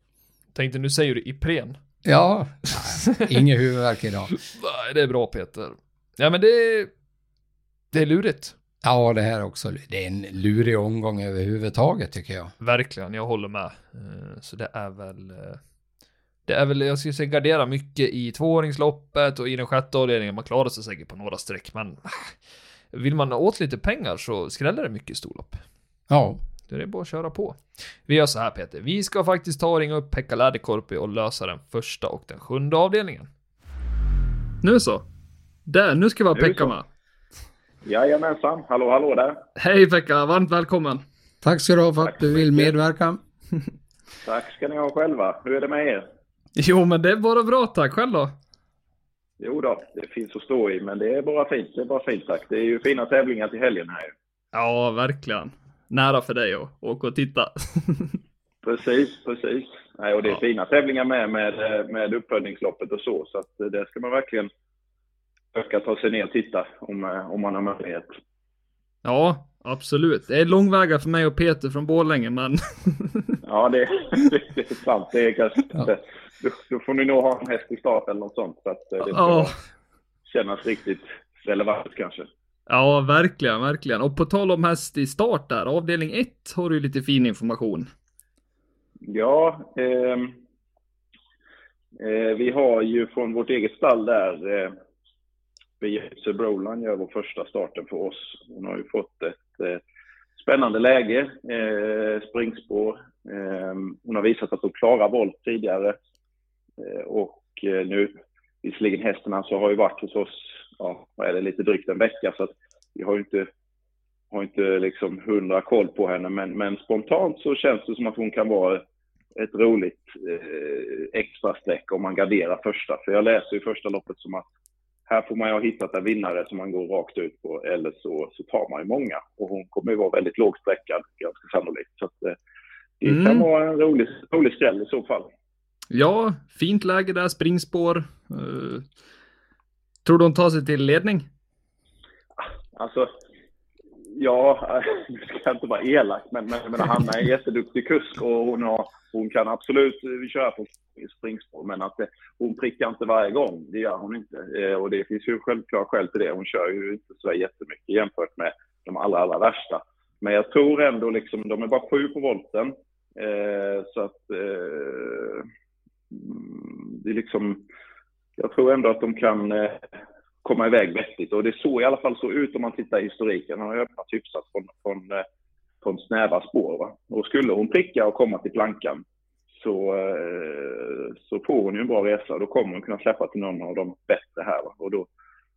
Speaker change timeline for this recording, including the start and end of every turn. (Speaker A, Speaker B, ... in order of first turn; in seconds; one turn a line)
Speaker A: 0.6-1.8
Speaker B: 2.0-4.3
Speaker A: 2.9-3.3
Speaker A: 4.3-6.9
Speaker A: 7.9-8.6
Speaker B: 8.8-12.5
Speaker A: 12.6-15.6
Speaker A: 16.5-22.4
Speaker A: 22.9-25.6
Speaker B: 26.1-26.4
Speaker A: 26.7-33.3
Speaker A: 34.6-35.1
Speaker A: 35.7-36.9
Speaker C: 36.3-36.7
Speaker C: 37.8-39.4
Speaker A: 39.6-41.0
Speaker B: 41.4-43.2
Speaker C: 42.0-42.7
Speaker C: 44.2-46.0
Speaker A: 46.6-48.3
Speaker C: 49.4-54.1
Speaker A: 54.5-58.2
Speaker C: 58.6-64.5
Speaker C: 65.5-68.1
Speaker A: 69.0-73.4
Speaker C: 73.4-79.5
Speaker A: 79.0-79.5
Speaker C: 80.3-82.3
Speaker A: 82.7-87.9
Speaker C: 89.0-90.4
Speaker C: 92.0-94.8
Speaker C: 95.8-99.8
Speaker C: 100.4-106.0
Speaker C: 106.8-113.5
Speaker C: 114.3-118.8
Speaker C: 119.3-124.5
Speaker C: 125.1-132.4
Speaker C: 133.0-135.3
Speaker A: 133.1-133.5
Speaker A: 135.9-138.9
Speaker A: 140.1-141.3
Speaker C: 142.7-143.1
Speaker C: 144.0-165.5
Speaker C: 166.1-167.7
Speaker C: 168.4-169.9
Speaker C: 170.4-175.2
Speaker C: 175.8-179.0
Speaker C: 179.6-185.1